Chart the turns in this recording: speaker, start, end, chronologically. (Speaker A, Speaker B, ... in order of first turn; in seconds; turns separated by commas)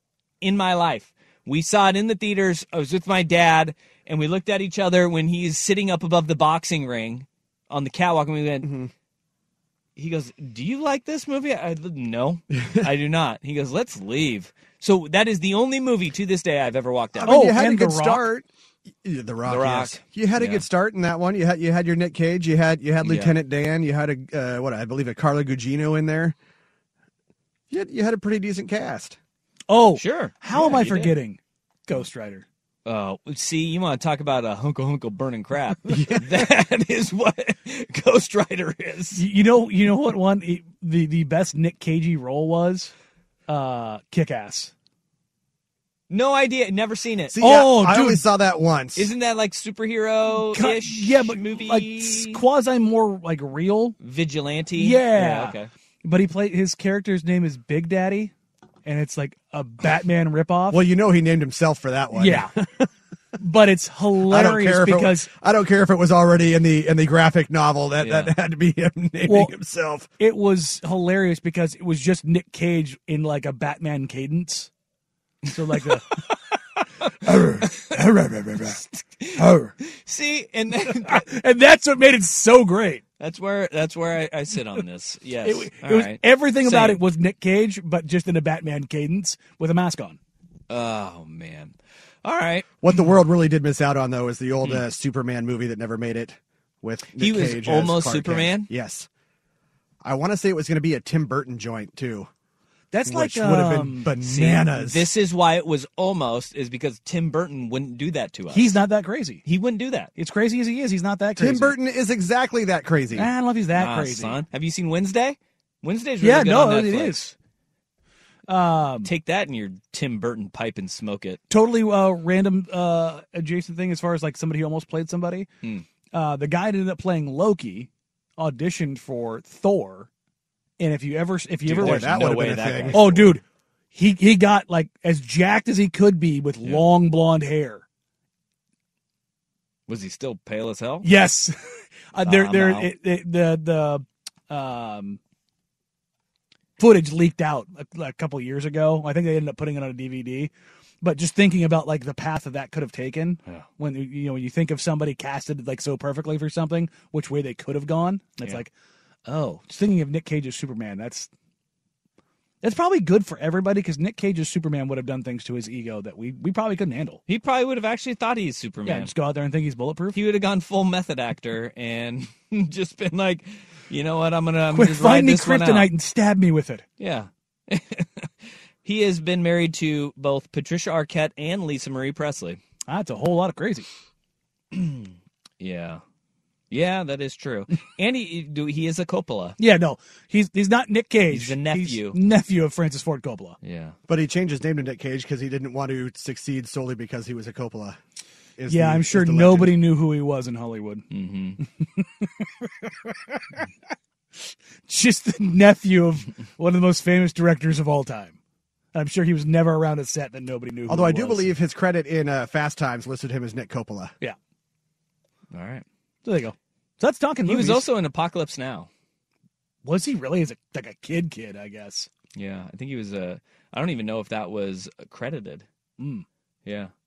Speaker A: 0.4-8.7, Speaker B: 8.6-8.9, Speaker A: 10.0-17.5, Speaker B: 17.2-18.5, Speaker C: 17.3-18.3, Speaker B: 19.0-26.4, Speaker A: 19.5-20.6, Speaker A: 23.0-23.4, Speaker B: 27.7-29.2, Speaker C: 29.7-32.5, Speaker A: 29.9-31.1, Speaker A: 32.9-39.2, Speaker C: 39.1-42.9, Speaker C: 43.5-44.7, Speaker A: 46.1-47.4, Speaker B: 47.3-49.1, Speaker C: 47.4-48.2, Speaker A: 49.0-52.4, Speaker C: 50.3-54.0, Speaker A: 54.0-55.7, Speaker C: 54.8-58.3, Speaker C: 58.9-60.8, Speaker B: 60.7-62.9, Speaker C: 62.1-62.5, Speaker C: 63.4-65.3, Speaker B: 64.3-70.1, Speaker A: 68.0-68.3, Speaker C: 69.2-69.5, Speaker C: 70.2-74.7, Speaker C: 75.5-76.2, Speaker C: 77.2-78.8, Speaker A: 78.7-81.3, Speaker C: 79.4-79.7, Speaker C: 80.9-83.0, Speaker A: 83.2-87.0, Speaker C: 85.4-90.2, Speaker A: 90.7-91.7, Speaker A: 92.2-92.7, Speaker B: 92.8-99.1, Speaker A: 97.2-98.7, Speaker B: 100.0-102.3, Speaker C: 102.9-104.1, Speaker B: 103.1-105.1, Speaker A: 104.2-108.8, Speaker C: 108.5-109.4, Speaker A: 109.5-110.1, Speaker C: 110.2-111.8, Speaker B: 111.4-113.3, Speaker C: 113.1-114.4, Speaker A: 113.8-117.2, Speaker C: 116.2-117.3, Speaker C: 118.5-119.1, Speaker A: 119.0-121.4, Speaker C: 121.5-125.5, Speaker C: 126.1-130.1, Speaker C: 130.8-133.4, Speaker B: 131.7-133.2, Speaker A: 131.7-133.3, Speaker C: 133.9-137.8, Speaker A: 136.6-136.9, Speaker A: 139.9-141.1, Speaker C: 141.0-141.6, Speaker C: 142.1-145.2, Speaker A: 142.2-142.9, Speaker C: 146.8-150.5, Speaker C: 151.0-158.7, Speaker C: 159.3-161.3, Speaker C: 162.6-167.2, Speaker A: 167.3-169.1, Speaker C: 168.8-170.2, Speaker A: 170.1-175.9, Speaker C: 174.7-176.8, Speaker A: 177.0-178.3, Speaker A: 178.8-182.6, Speaker C: 182.9-183.9, Speaker A: 184.7-186.0, Speaker A: 186.7-189.6, Speaker C: 189.6-193.6, Speaker A: 191.3-192.2, Speaker A: 193.6-194.0, Speaker B: 194.1-198.0, Speaker B: 198.6-199.8, Speaker C: 198.7-201.1, Speaker A: 201.1-201.6, Speaker C: 201.6-203.4, Speaker C: 204.9-208.4, Speaker C: 208.9-211.5, Speaker B: 210.9-214.1, Speaker A: 215.5-215.8, Speaker C: 216.2-217.8, Speaker A: 217.5-218.9, Speaker C: 219.8-222.1, Speaker A: 222.3-225.7, Speaker C: 226.0-226.2, Speaker A: 226.7-226.9